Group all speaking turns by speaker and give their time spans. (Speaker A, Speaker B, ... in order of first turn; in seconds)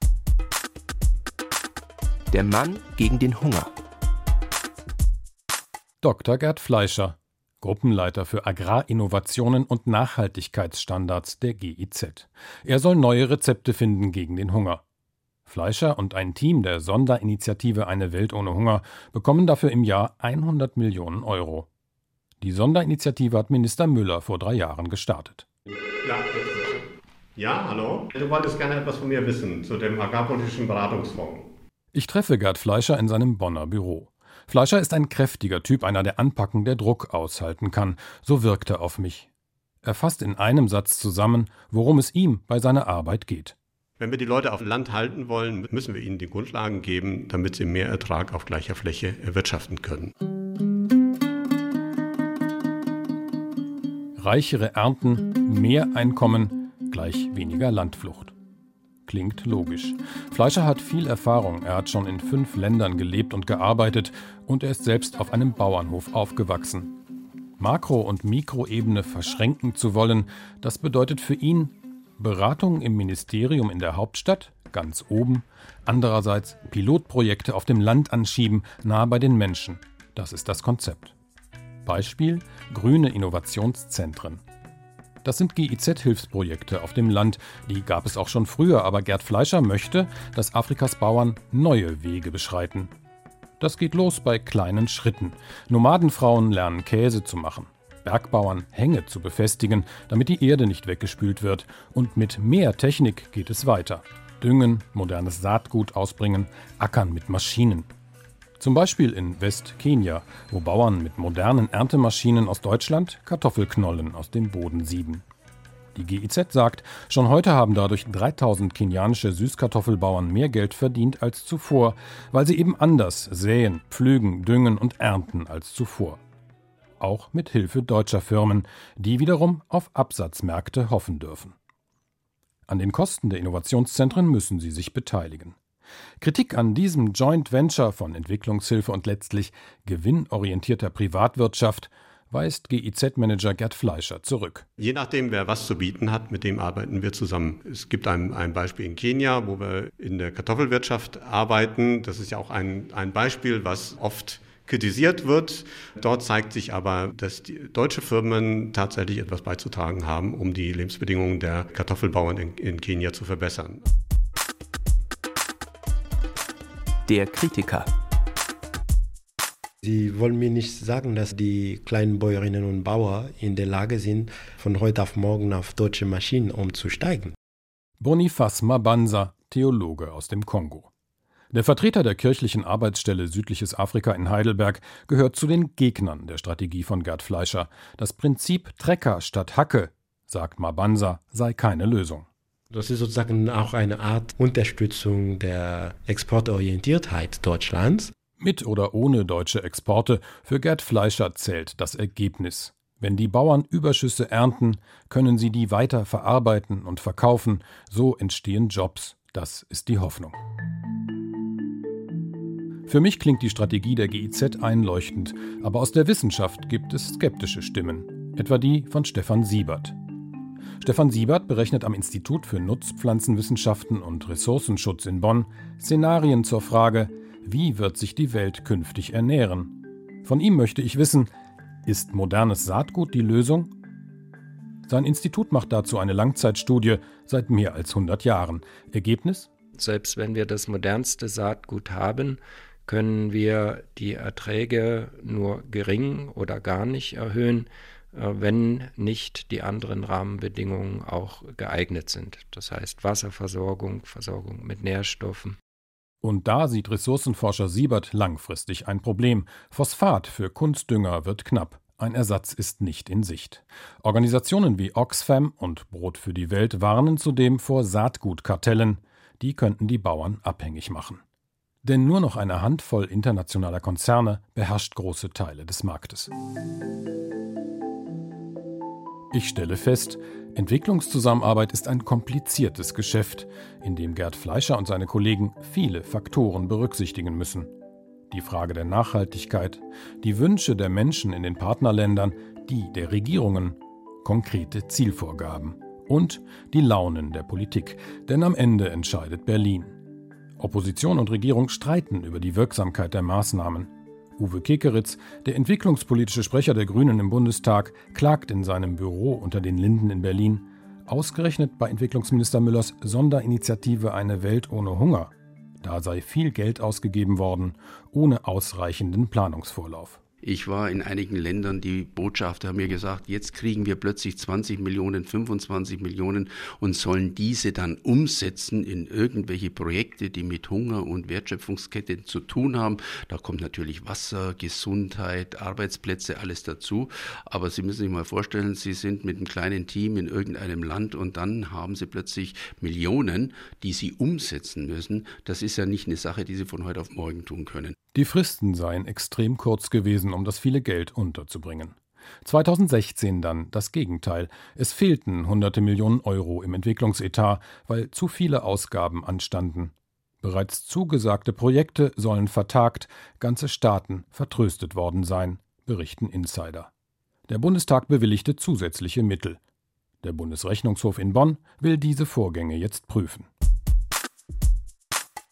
Speaker A: 2.3-3.7, 167.1-167.9
Speaker B: 6.0-14.8, 15.5-21.7, 22.4-25.5, 31.9-39.3, 39.8-43.6, 54.2-58.3, 59.1-66.9, 67.6-81.1, 81.8-84.4, 85.2-92.9, 93.6-107.9, 108.6-115.2, 116.0-126.2, 127.0-131.5, 132.7-135.6, 136.2-144.7, 178.0-180.9, 181.5-192.3, 198.4-210.4, 212.9-219.9, 220.8-231.3, 231.9-233.7, 234.9-239.5, 256.2-271.2, 271.8-276.3, 279.3-287.7, 288.3-300.0, 300.6-320.2, 348.1-366.9, 367.5-369.6, 370.2-373.5
Speaker C: 26.0-31.5, 44.0-50.1, 144.8-163.9
Speaker D: 169.8-177.3, 192.7-198.1
Speaker E: 239.8-255.6
Speaker F: 320.4-347.9